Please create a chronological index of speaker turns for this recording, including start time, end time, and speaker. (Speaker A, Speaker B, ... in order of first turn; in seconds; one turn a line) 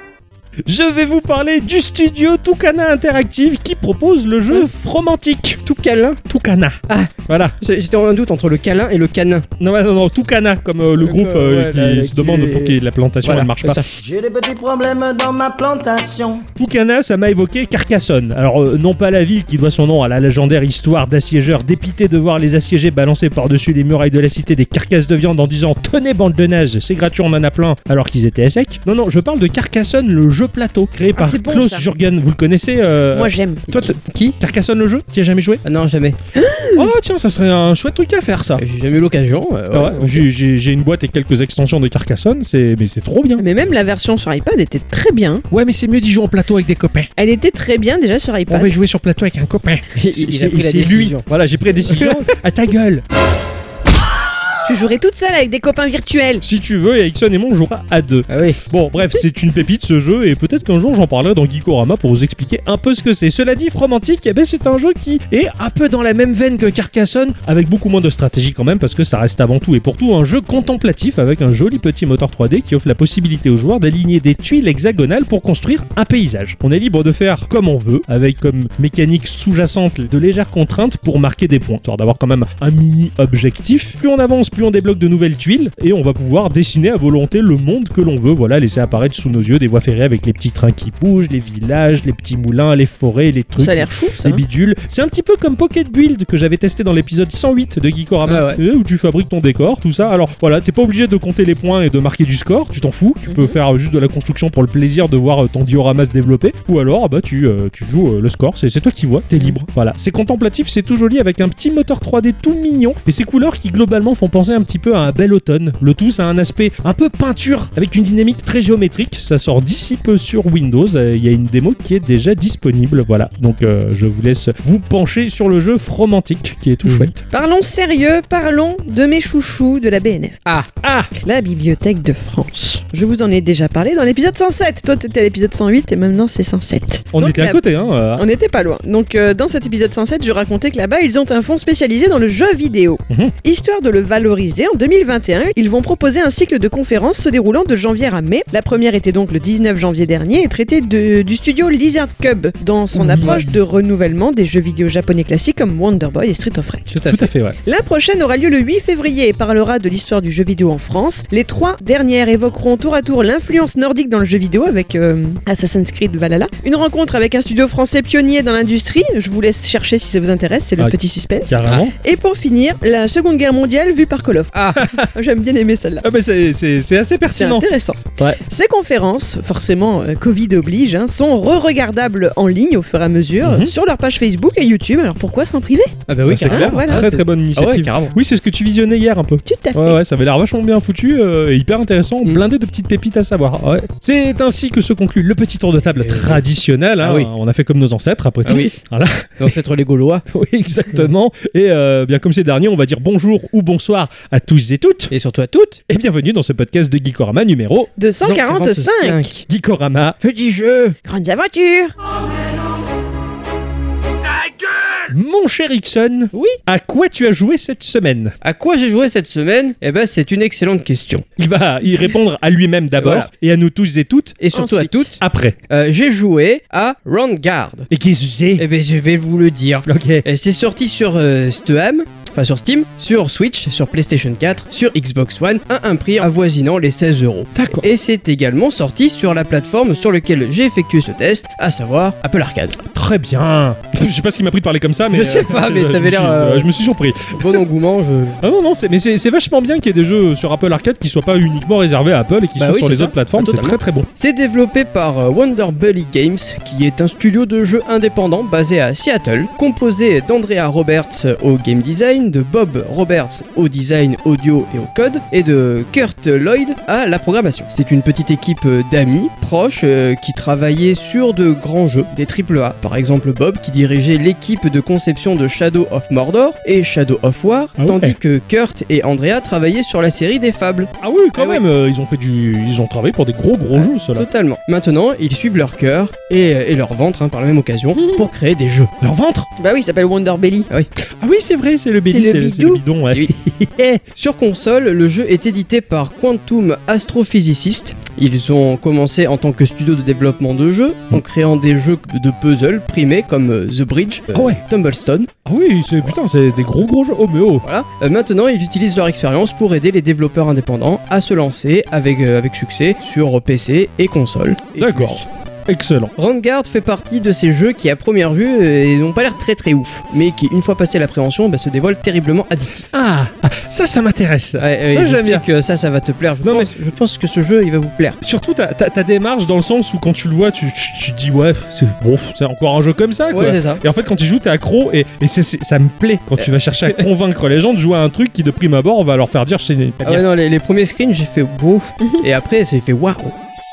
Speaker A: 0.7-5.6
Speaker B: 5.7-6.2
Speaker A: 6.3-7.6
Speaker B: 6.9-9.4
Speaker A: 9.6-13.8
Speaker B: 11.0-13.9
Speaker C: 14.0-16.4
Speaker A: 16.6-35.6
Speaker D: 31.1-31.8
Speaker D: 33.1-33.6
Speaker B: 33.7-34.4
Speaker B: 35.6-36.2
Speaker D: 36.3-36.9
Speaker A: 36.7-38.6
Speaker B: 38.6-40.2
Speaker A: 39.7-43.4
Speaker D: 43.4-45.4
Speaker A: 45.5-47.1
Speaker D: 47.2-48.7
Speaker A: 48.5-53.0
Speaker B: 49.9-51.2
Speaker B: 51.8-52.2
Speaker D: 54.6-56.4
Speaker A: 56.4-127.2
Speaker B: 58.3-58.6
Speaker D: 93.6-94.4
Speaker B: 98.2-98.6
Speaker D: 103.2-103.5
Speaker B: 126.8-127.1
Speaker D: 127.3-130.4
Speaker A: 130.8-131.1
Speaker D: 131.2-137.6
Speaker A: 137.1-138.2
Speaker D: 138.1-156.9
Speaker A: 143.1-143.3
Speaker A: 153.0-153.4
Speaker B: 153.1-153.4
Speaker B: 156.9-157.3
Speaker A: 157.0-157.6
Speaker D: 157.6-176.1
Speaker A: 171.5-171.9
Speaker A: 174.8-175.1
Speaker A: 176.0-177.7
Speaker D: 177.3-185.9
Speaker A: 183.4-183.7
Speaker B: 186.1-188.2
Speaker A: 186.3-199.6
Speaker D: 186.5-187.0
Speaker D: 189.4-190.0
Speaker B: 196.0-196.4
Speaker B: 197.0-197.3
Speaker B: 198.4-198.7
Speaker B: 199.4-200.2
Speaker A: 200.3-205.1
Speaker B: 205.1-205.8
Speaker A: 205.9-207.9
Speaker D: 208.0-209.2
Speaker B: 208.2-209.4
Speaker A: 209.5-210.2
Speaker B: 210.2-210.9
Speaker D: 211.0-211.9
Speaker A: 215.1-218.3
Speaker B: 218.4-221.2
Speaker A: 221.4-224.4
Speaker B: 223.0-223.3
Speaker B: 224.4-225.2
Speaker D: 224.5-225.1
Speaker A: 225.2-225.6
Speaker B: 225.7-227.9
Speaker A: 227.9-228.7
Speaker B: 228.6-242.8
Speaker A: 229.8-230.2
Speaker A: 237.5-237.9
Speaker A: 242.9-247.6
Speaker B: 245.1-246.7
Speaker B: 247.3-248.4
Speaker A: 248.4-254.1
Speaker B: 252.6-281.6
Speaker A: 277.8-278.2
Speaker A: 281.0-284.3
Speaker B: 283.7-288.9
Speaker D: 287.9-288.2
Speaker A: 289.0-289.5
Speaker D: 289.6-290.7
Speaker A: 291.0-294.0
Speaker D: 292.0-292.8
Speaker B: 294.1-305.3
Speaker A: 304.3-304.6
Speaker A: 305.4-307.6
Speaker B: 307.6-315.2
Speaker A: 314.8-316.1
Speaker B: 316.2-322.9
Speaker A: 322.9-325.4
Speaker B: 324.6-328.2
Speaker A: 326.4-326.7
Speaker A: 328.2-340.2
Speaker B: 333.3-333.8
Speaker B: 336.4-337.0
Speaker B: 340.0-343.3